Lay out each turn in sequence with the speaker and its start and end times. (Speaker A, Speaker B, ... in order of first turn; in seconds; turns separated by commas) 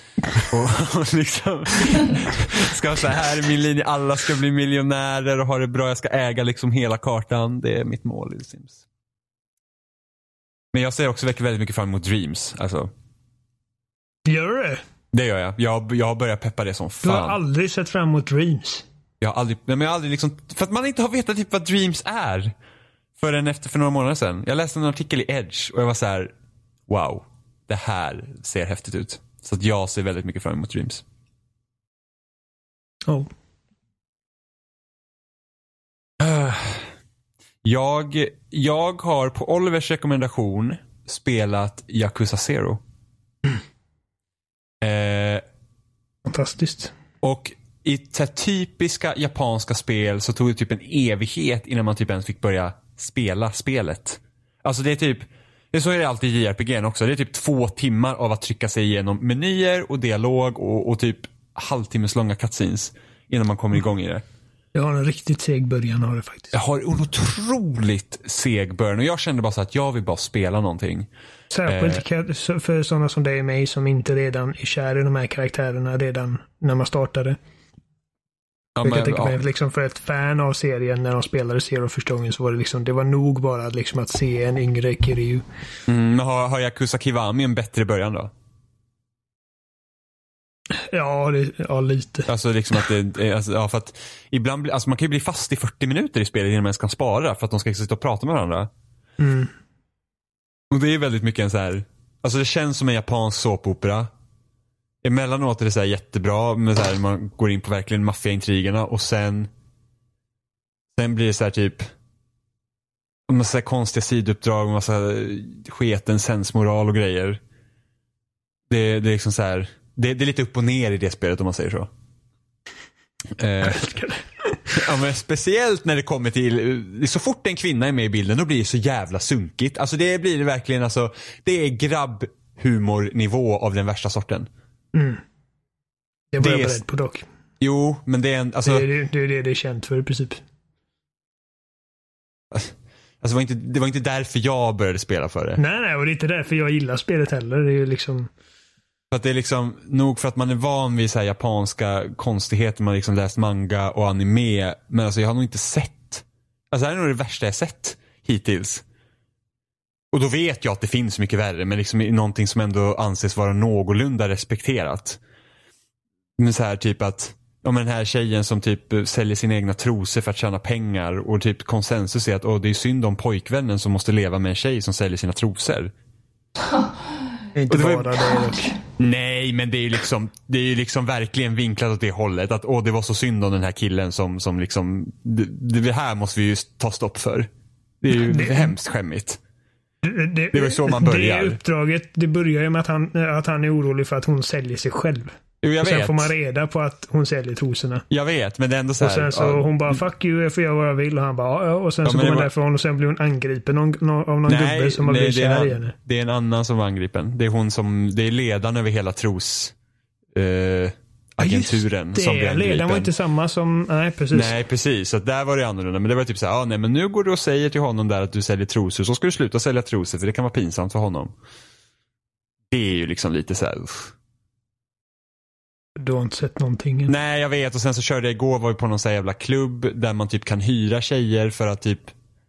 Speaker A: 0.3-8.8, Speaker A: 10.7-12.9, Speaker B: 14.2-14.8, Speaker A: 15.1-17.4, Speaker B: 17.0-18.8, Speaker A: 19.2-22.5, Speaker A: 23.2-26.3, Speaker A: 26.9-31.0, Speaker A: 36.2-36.8, Speaker A: 37.6-42.8, Speaker A: 44.8-45.4, Speaker B: 46.2-46.9, Speaker A: 47.2-64.2, Speaker B: 64.7-66.5, Speaker A: 66.5-71.1, Speaker B: 71.5-77.4, Speaker A: 71.7-72.0, Speaker A: 78.8-79.4, Speaker B: 78.8-85.4, Speaker A: 85.9-88.3, Speaker B: 90.8-92.3, Speaker A: 92.3-98.7, Speaker B: 99.2-99.5, Speaker A: 100.7-104.1, Speaker A: 105.0-109.5, Speaker A: 111.0-111.8, Speaker A: 113.3-117.4, Speaker A: 118.7-121.9, Speaker A: 123.4-123.9, Speaker B: 123.6-124.6, Speaker A: 124.7-134.5, Speaker B: 134.9-135.2, Speaker B: 136.3-137.2, Speaker A: 136.4-136.8, Speaker A: 137.6-138.9, Speaker B: 138.6-140.4, Speaker A: 142.5-145.6, Speaker B: 145.6-148.3, Speaker A: 149.1-158.8, Speaker A: 160.1-165.2, Speaker A: 166.4-175.9, Speaker B: 177.5-178.8, Speaker A: 177.7-178.2, Speaker A: 179.0-187.5, Speaker A: 188.0-189.4, Speaker B: 188.1-188.7, Speaker B: 190.0-198.0, Speaker A: 190.5-191.6, Speaker A: 195.6-196.3, Speaker A: 198.1-200.0, Speaker B: 199.0-205.9, Speaker A: 202.0-202.5, Speaker A: 204.5-209.7, Speaker A: 210.3-213.1, Speaker B: 211.4-214.5, Speaker A: 214.3-221.3, Speaker A: 222.7-224.1, Speaker B: 226.0-227.1, Speaker A: 227.1-232.1